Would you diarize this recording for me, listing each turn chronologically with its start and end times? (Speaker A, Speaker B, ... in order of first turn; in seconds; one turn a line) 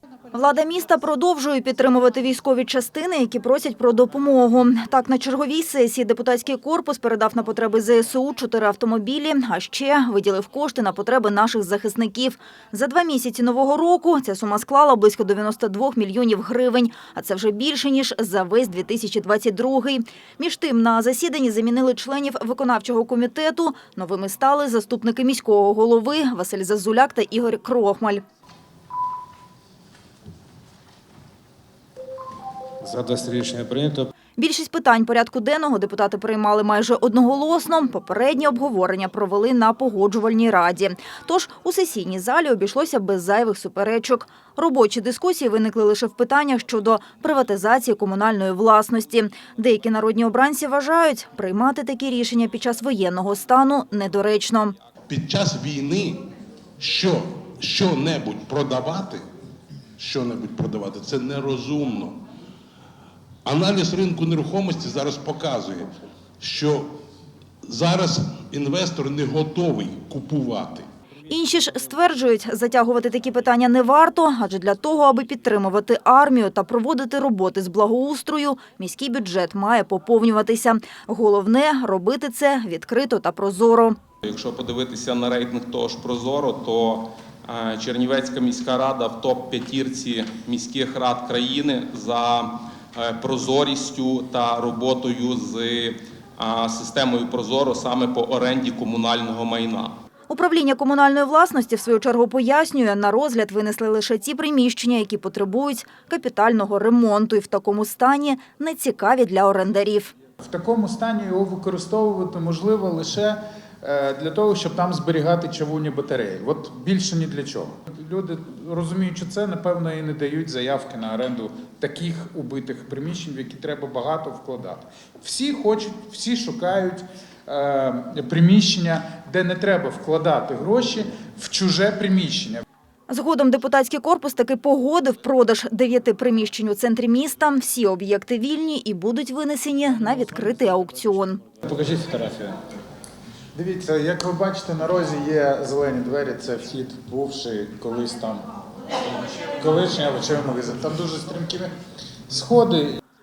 Speaker A: 0.3-28.2
Speaker B: 32.9-34.1
Speaker A: 34.4-54.8
Speaker C: 55.1-56.2
Speaker C: 56.8-59.2
Speaker C: 60.0-62.2
Speaker C: 63.5-66.9
Speaker C: 67.7-70.9
Speaker A: 71.3-84.0
Speaker D: 84.2-100.0
Speaker A: 100.3-110.1
Speaker E: 110.4-132.6
Speaker A: 133.1-141.4
Speaker B: 141.7-142.5
Speaker E: 141.9-142.2
Speaker E: 143.5-148.5
Speaker E: 149.6-151.7
Speaker E: 152.3-153.0